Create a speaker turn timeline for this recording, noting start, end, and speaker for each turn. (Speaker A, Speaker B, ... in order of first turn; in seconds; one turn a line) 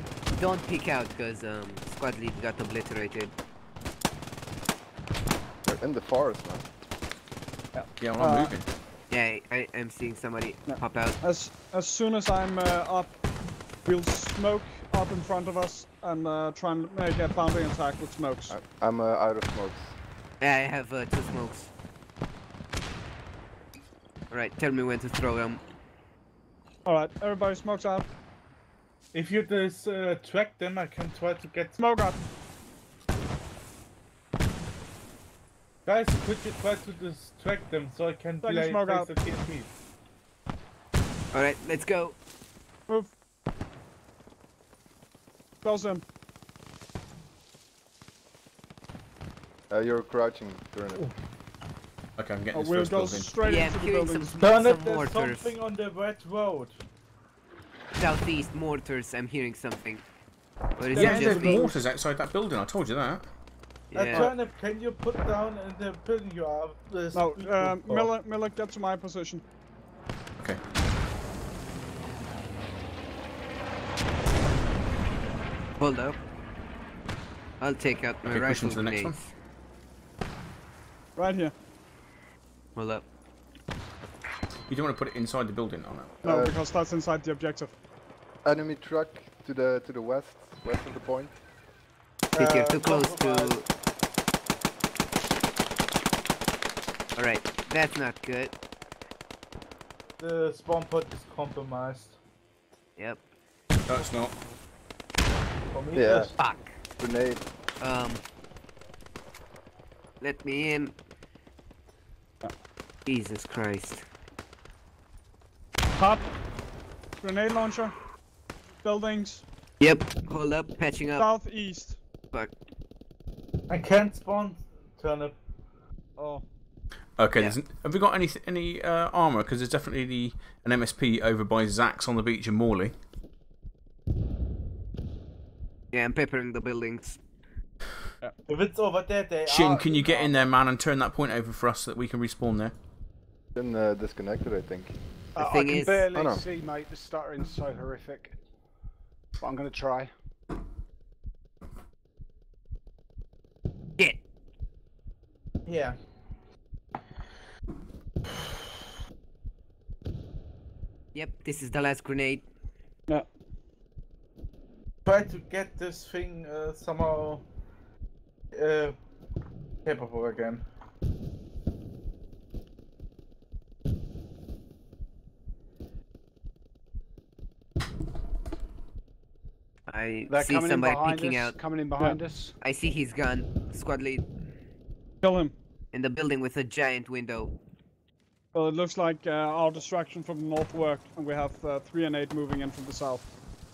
Speaker A: 0.3-3.3
Speaker B: 5.7-6.7
Speaker C: 7.8-8.6
Speaker D: 8.0-8.7
Speaker A: 9.1-11.2
Speaker C: 10.7-13.2
Speaker C: 13.9-18.6
Speaker B: 18.5-20.0
Speaker A: 20.4-21.7
Speaker A: 24.3-25.6
Speaker C: 26.9-28.1
Speaker E: 29.1-31.8
Speaker C: 31.8-32.2
Speaker E: 35.9-39.7
Speaker C: 38.4-39.1
Speaker A: 41.3-42.1
Speaker C: 45.6-46.0
Speaker B: 49.7-51.0
Speaker D: 52.2-53.3
Speaker C: 52.5-54.4
Speaker A: 53.4-55.5
Speaker E: 54.4-56.8
Speaker A: 58.0-60.0
Speaker A: 60.8-61.7
Speaker D: 60.9-63.3
Speaker C: 60.9-61.8
Speaker A: 63.9-64.3
Speaker E: 63.9-68.1
Speaker C: 67.1-69.4
Speaker A: 75.8-76.2
Speaker A: 77.6-79.2
Speaker D: 78.2-79.2
Speaker C: 81.2-81.5
Speaker A: 82.8-83.0
Speaker D: 84.7-86.2
Speaker B: 86.2-86.5
Speaker C: 86.2-87.7
Speaker B: 88.5-91.3
Speaker E: 92.3-93.6
Speaker A: 92.3-93.7
Speaker A: 97.2-98.5
Speaker E: 100.2-102.2
Speaker D: 103.9-104.4
Speaker E: 105.7-106.3
Speaker B: 105.9-106.3
Speaker A: 106.4-106.7
Speaker B: 107.0-107.4
Speaker A: 107.8-108.2
Speaker A: 110.2-110.9
Speaker A: 113.1-114.0
Speaker C: 116.0-116.3
Speaker C: 117.2-118.0
Speaker C: 118.8-119.5
Speaker A: 119.8-121.2
Speaker C: 121.2-122.0
Speaker E: 123.7-125.3
Speaker C: 126.2-126.4
Speaker D: 127.2-132.9
Speaker A: 135.9-137.2
Speaker E: 138.5-140.4
Speaker D: 139.5-142.7
Speaker B: 143.6-144.9
Speaker F: 145.4-148.4
Speaker A: 145.4-146.1
Speaker B: 146.1-146.4
Speaker F: 149.4-150.1
Speaker E: 155.7-156.0
Speaker A: 161.1-162.4
Speaker E: 165.1-167.4
Speaker E: 168.5-169.0
Speaker E: 169.8-170.6
Speaker A: 179.9-181.6
Speaker F: 180.3-182.6
Speaker A: 182.6-184.3
Speaker C: 185.2-185.6
Speaker A: 185.9-187.5
Speaker C: 188.6-193.3